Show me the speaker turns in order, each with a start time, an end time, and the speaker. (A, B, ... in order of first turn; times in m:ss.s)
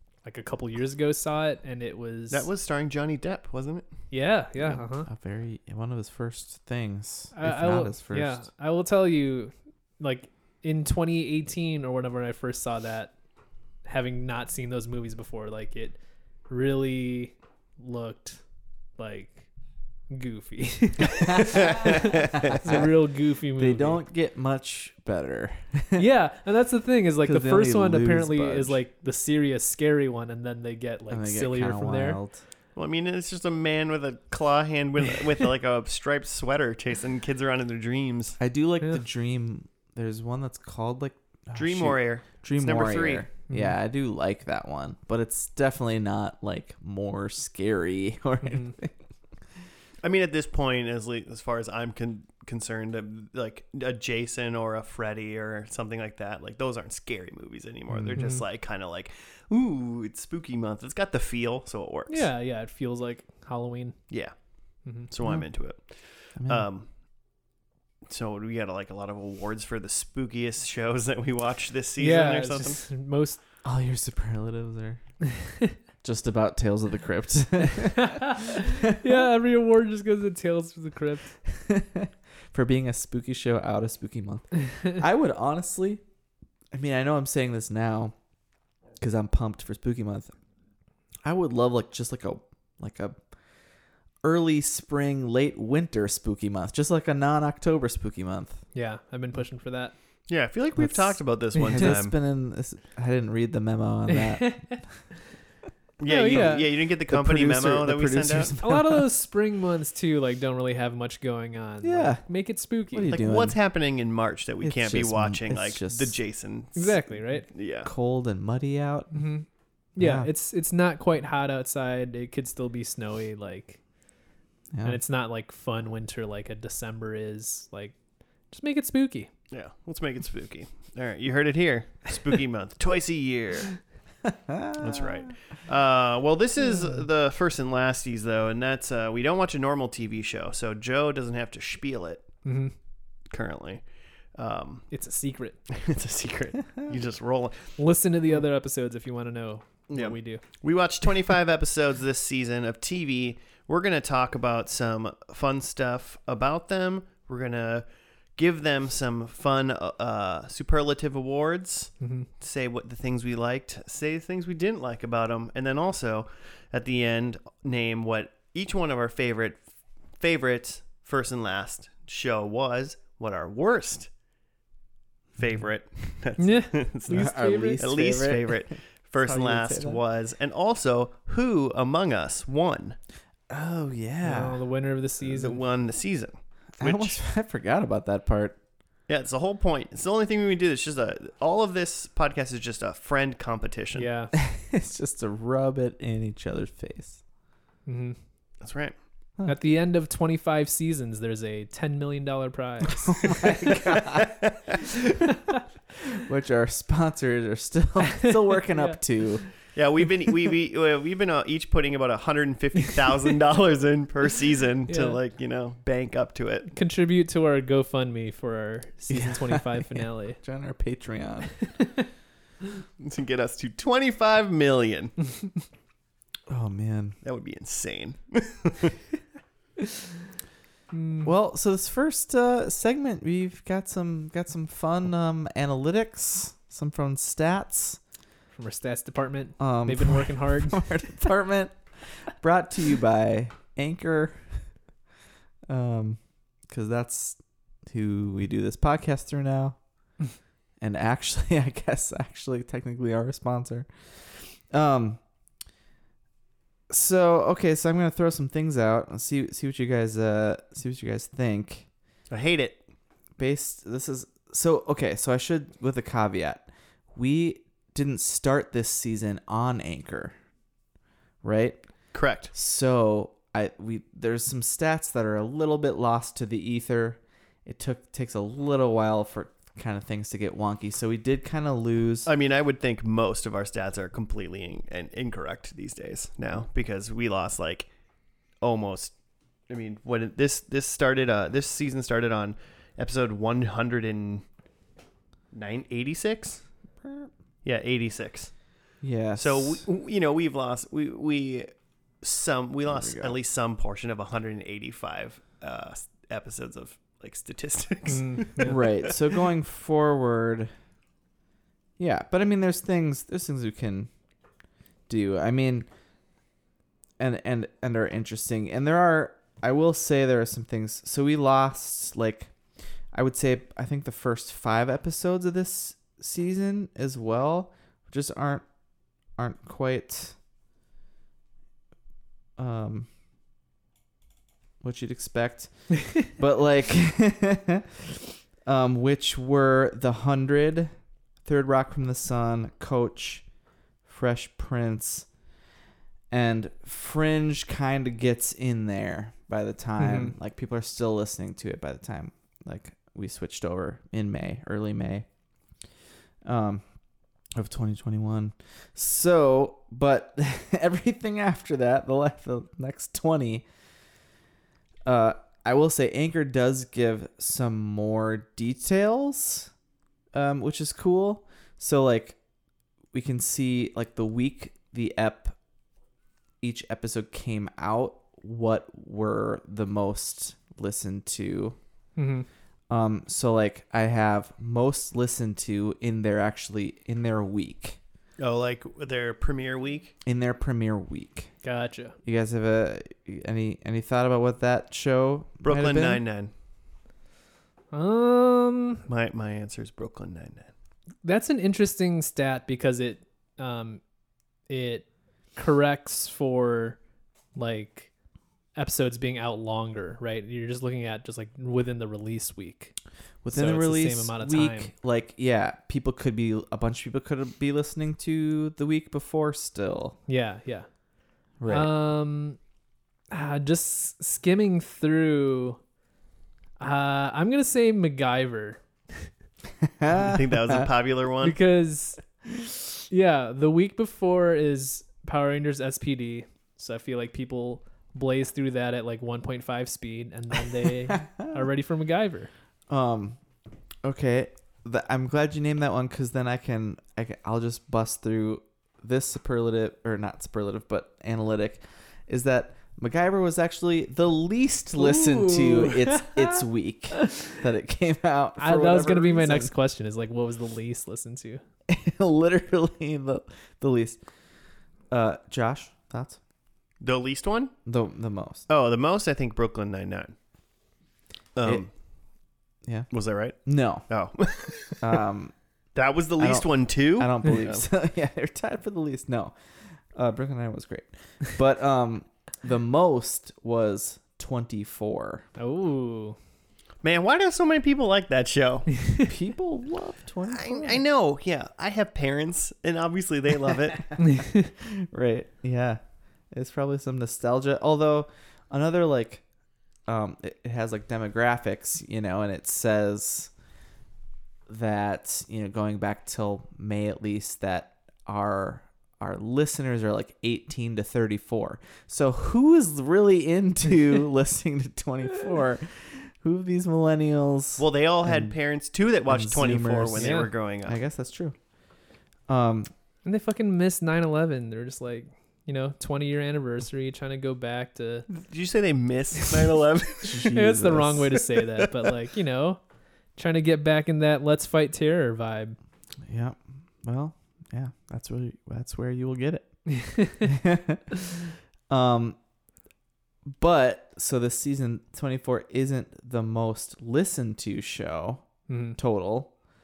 0:00.2-0:02.5 A
0:02.3-0:03.9 B
0:04.1-0:05.1 A
0:04.6-0:08.4 C
0:07.3-0:13.2 A
0:13.8-0:16.0 A
0:16.5-0:18.4 A
0:19.0-0:19.5 A
0:20.1-0:24.0 A
0:21.4-0:22.9 C
0:23.6-0:26.1 C
0:26.0-0:32.2 A
0:27.2-0:28.8 C
0:31.1-0:32.4 C
0:32.8-0:38.4 B
0:38.4-0:49.0 C
0:41.6-0:43.3 B
0:43.5-0:43.8 A
0:50.0-1:02.3 B
0:57.9-0:58.2 C
0:58.1-0:58.4 A
1:02.1-1:04.0 A
1:05.1-1:06.9 B
1:06.4-1:06.7 C
1:08.1-1:12.8 B
1:12.0-1:13.4 A
1:13.6-1:15.0 C
1:16.0-1:19.2 C
1:18.0-1:21.4 A
1:21.5-1:26.0 C
1:26.7-1:28.2 C
1:29.0-1:30.3 C
1:31.2-1:33.2 C
1:34.2-1:38.6 C
1:38.7-1:40.0 A
1:40.3-1:42.2 B
1:40.8-1:44.8 C
1:44.1-1:44.8 A
1:46.0-1:48.5 B
1:46.0-1:46.7 A
1:46.3-1:46.6 C
1:47.1-1:49.0 C
1:48.6-1:53.1 A
1:51.8-1:52.2 C
1:52.9-1:53.6 C
1:53.1-1:57.9 B
1:54.6-1:56.2 C
1:56.8-1:57.5 A
1:57.8-1:59.2 C
1:59.1-2:03.8 A
2:00.0-2:00.3 C
2:04.7-2:05.0 C
2:04.8-2:08.0 A
2:08.5-2:09.3 A
2:09.5-2:13.8 B
2:14.2-2:15.2 C
2:14.8-2:22.2 B
2:22.4-2:22.7 A
2:23.3-2:23.8 B
2:24.4-2:24.9 B
2:24.9-2:25.6 A
2:25.7-2:27.8 B
2:27.8-2:30.4 A
2:29.9-2:37.8 B
2:38.4-2:49.6 B
2:42.0-2:42.3 A
2:50.2-2:54.1 B
2:55.4-3:03.0 B
2:56.4-2:57.9 A
2:57.1-3:00.0 C
3:03.5-3:04.6 C
3:04.2-3:05.6 A
3:05.2-3:07.2 B
3:06.8-3:08.6 C
3:09.1-3:14.1 B
3:14.0-3:14.3 A
3:14.3-3:17.2 C
3:17.9-3:18.2 A
3:18.6-3:19.0 B
3:19.5-3:23.4 A
3:23.1-3:24.3 C
3:23.8-3:24.6 B
3:26.0-3:29.5 C
3:28.7-3:29.0 A
3:29.7-3:36.7 B
3:34.9-3:35.2 A
3:36.7-3:40.4 A
3:39.1-3:41.7 C
3:43.0-3:45.2 B
3:46.5-3:47.2 C
3:47.2-3:49.0 B
3:50.9-3:51.3 A
3:51.2-3:58.0 C
3:58.6-4:00.8 A
3:59.6-4:01.8 C
4:02.4-4:04.6 C
4:05.7-4:09.8 C
4:10.8-4:15.2 C
4:16.9-4:21.9 C
4:22.3-4:22.8 B
4:23.4-4:30.3 C
4:31.4-4:31.8 C
4:32.1-4:32.5 B
4:32.5-4:42.3 C
4:42.3-4:47.9 B
4:48.6-4:49.1 B
4:49.7-4:54.4 B
4:55.5-4:56.6 B
4:57.0-4:57.3 C
4:57.6-4:58.5 B
4:59.0-4:59.8 C
4:59.4-5:01.7 B
5:02.2-5:09.2 B
5:02.9-5:03.4 C
5:08.1-5:08.8 A
5:08.6-5:10.7 C
5:12.0-5:14.1 C
5:15.1-5:15.9 C
5:17.2-5:22.5 C
5:23.1-5:28.6 C
5:29.4-5:30.4 C
5:32.6-5:33.1 C
5:34.8-5:40.9 C
5:41.4-5:43.4 C
5:44.1-5:45.3 C
5:46.3-5:55.3 C
5:50.0-5:50.3 A
5:56.4-5:56.8 C
5:57.6-6:03.7 C
6:05.1-6:09.7 C
6:10.3-6:12.4 C
6:13.1-6:15.6 C
6:16.6-6:21.8 C
6:22.2-6:22.5 A
6:22.9-6:28.0 C
6:28.4-6:30.1 B
6:30.2-6:31.5 C
6:31.6-6:32.2 A
6:32.2-6:36.2 C
6:35.6-6:36.5 B
6:37.9-6:39.0 A
6:39.1-6:40.7 B
6:41.2-6:44.0 A
6:44.7-6:47.0 A
6:47.6-6:48.1 A
6:48.8-6:52.9 A
6:53.4-7:00.2 C
6:53.5-6:54.9 A
7:00.3-7:00.9 A
7:01.6-7:01.9 C
7:01.7-7:02.6 A
7:03.3-7:05.8 A
7:06.8-7:09.3 A
7:09.8-7:10.9 C
7:10.2-7:11.6 B
7:11.4-7:12.2 A
7:13.1-7:22.5 A
7:21.1-7:21.5 C
7:22.9-7:23.4 C
7:24.0-7:39.7 C
7:35.0-7:36.6 A
7:37.2-7:37.5 A
7:38.6-7:41.6 A
7:41.9-7:44.2 C
7:45.1-7:46.4 C
7:47.0-7:47.7 B
7:47.9-7:48.7 C
7:48.7-7:50.3 B
7:51.6-7:51.9 B
7:53.1-7:55.2 B
7:53.6-7:54.1 C
7:55.0-7:55.5 C
7:56.0-7:57.8 B
7:56.4-7:59.5 C
8:00.1-8:05.5 C
8:05.6-8:06.4 A
8:07.0-8:09.0 B
8:09.2-8:11.0 C
8:10.5-8:14.1 B
8:14.2-8:14.7 A
8:14.8-8:16.0 C
8:16.5-8:19.4 C
8:20.1-8:23.5 C
8:24.7-8:38.5 C
8:37.8-8:41.0 B
8:39.3-8:41.6 C
8:40.2-8:40.5 A
8:42.5-8:42.9 C
8:43.2-8:48.3 A
8:48.3-8:50.5 B
8:50.2-8:51.3 C
8:50.4-8:52.8 A
8:53.4-8:55.8 A
8:56.3-8:59.8 C
8:59.9-9:00.5 A
9:00.4-9:01.3 C
9:01.9-9:02.4 C
9:03.5-9:09.5 C
9:08.7-9:09.0 A